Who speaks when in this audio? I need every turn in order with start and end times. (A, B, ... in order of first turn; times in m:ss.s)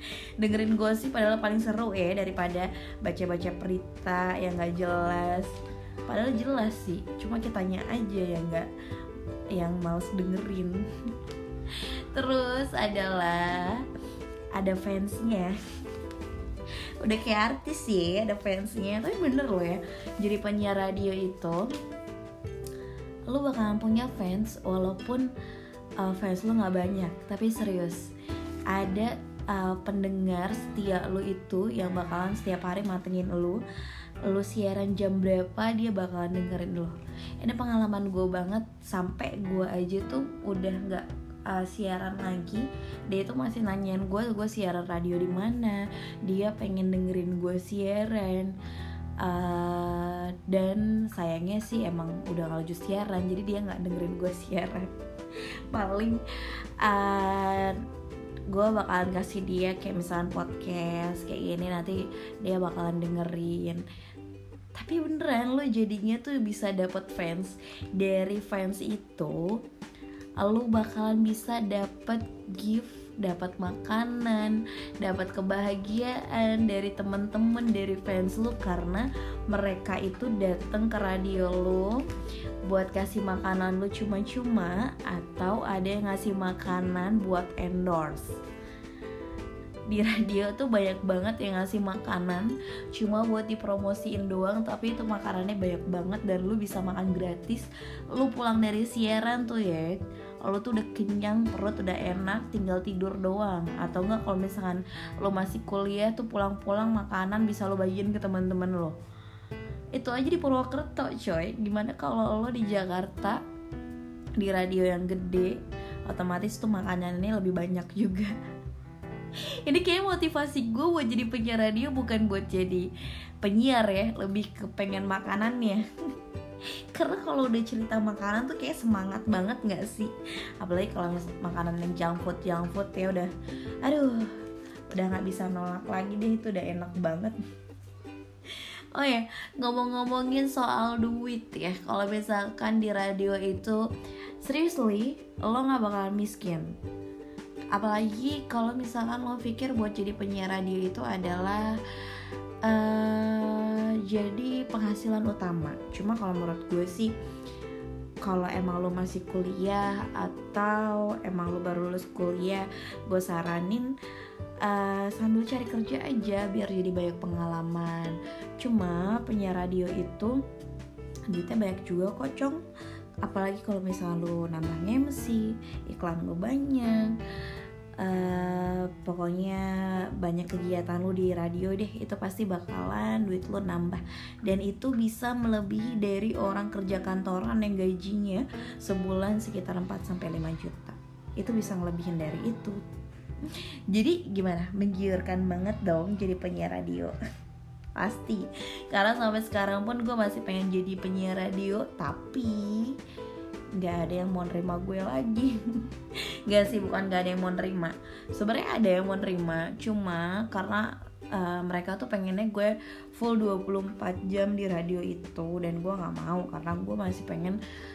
0:00.4-0:08.7 A
0:09.5-0:10.9 A
0:11.7-0:13.9 A
0:14.6-0:15.6 A
0:17.0-0:21.7 A
0:23.3-0:25.3 A
0:26.0-0:28.1 A
0:28.7-0:33.6 A
0:34.2-0:48.6 A
0:49.2-0:54.9 A
0:55.7-0:56.2 A
0:56.8-0:57.8 A
0:58.5-1:03.8 A
1:04.8-1:09.6 A
1:10.4-1:22.0 A
1:22.7-1:28.4 A
1:29.9-1:49.0 A
1:49.9-1:53.4 A
1:54.4-1:58.4 A
1:59.6-2:02.9 A
2:03.4-2:05.8 A
2:06.9-2:13.3 A
2:13.8-2:14.3 A
2:14.9-2:17.4 A
2:18.5-2:23.8 A
2:24.4-2:26.8 A
2:27.7-2:37.1 A
2:38.2-2:43.9 A
2:44.6-2:50.4 A
2:51.3-2:52.6 A
2:53.2-2:57.2 A
2:58.0-3:12.8 A
3:13.4-3:17.2 A
3:18.0-3:23.0 A
3:23.8-3:25.6 A
3:26.5-3:37.6 A